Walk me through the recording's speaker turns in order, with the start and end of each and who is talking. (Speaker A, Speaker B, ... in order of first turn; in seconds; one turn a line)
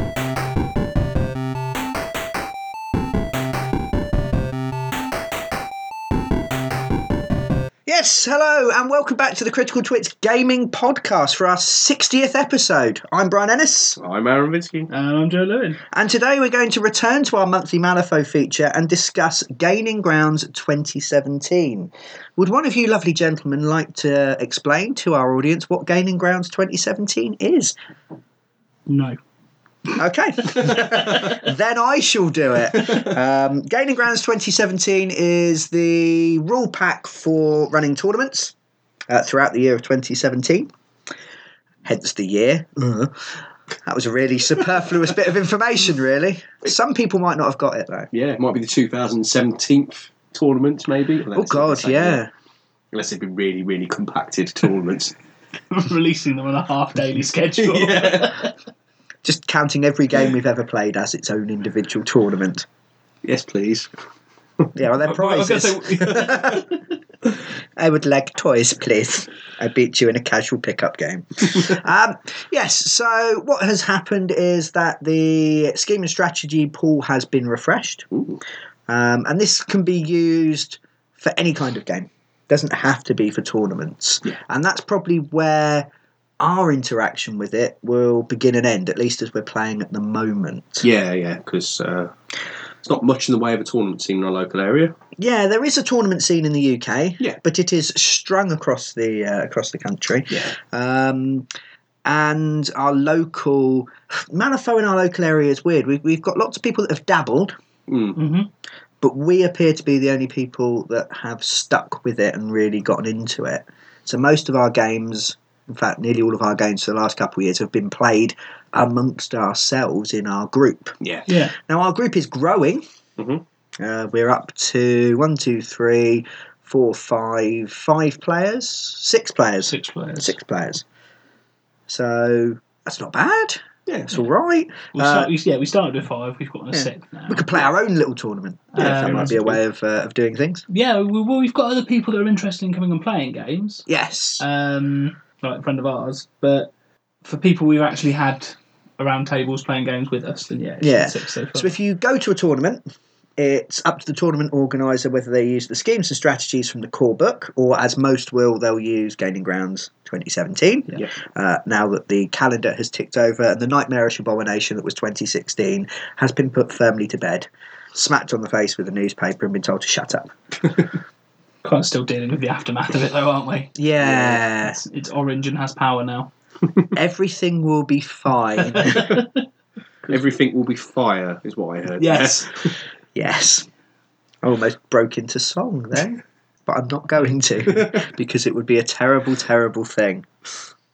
Speaker A: 7.8-14.0
Speaker B: 14.0-14.9
Speaker C: 14.9-15.8
Speaker A: 15.9-27.7
Speaker C: 28.9-29.2
Speaker A: 30.0-38.5
Speaker C: 30.5-31.4
Speaker A: 39.1-40.7
Speaker A: 41.8-48.1
Speaker B: 48.1-52.2
Speaker A: 51.4-52.3
Speaker B: 52.9-55.1
Speaker C: 55.7-58.5
Speaker B: 57.6-58.3
Speaker A: 59.2-62.6
Speaker B: 63.2-63.9
Speaker A: 64.8-66.7
Speaker C: 64.9-66.8
Speaker A: 67.2-78.1
Speaker B: 78.1-78.4
Speaker A: 78.9-85.9
Speaker A: 86.4-90.9
Speaker B: 90.8-92.1
Speaker B: 92.8-94.9
Speaker A: 95.2-101.5
Speaker A: 102.0-107.5
Speaker B: 107.9-108.2
Speaker C: 108.2-108.5
Speaker A: 109.0-121.0
Speaker C: 121.3-121.5
Speaker A: 121.5-122.8
Speaker A: 123.8-130.8
Speaker C: 129.7-130.3
Speaker A: 131.9-135.3
Speaker C: 134.9-137.6
Speaker A: 136.7-140.7
Speaker C: 138.8-139.6
Speaker B: 138.8-139.4
Speaker C: 140.7-143.9
Speaker A: 143.9-144.4
Speaker C: 144.4-146.7
Speaker C: 147.2-151.8
Speaker A: 150.8-152.8
Speaker A: 153.4-170.3
Speaker C: 171.6-173.8
Speaker A: 173.8-174.8
Speaker B: 174.0-174.4
Speaker C: 174.6-176.3
Speaker A: 176.9-179.1
Speaker C: 178.6-179.4
Speaker B: 180.1-182.7
Speaker C: 182.0-182.5
Speaker A: 183.2-183.7
Speaker A: 184.4-190.3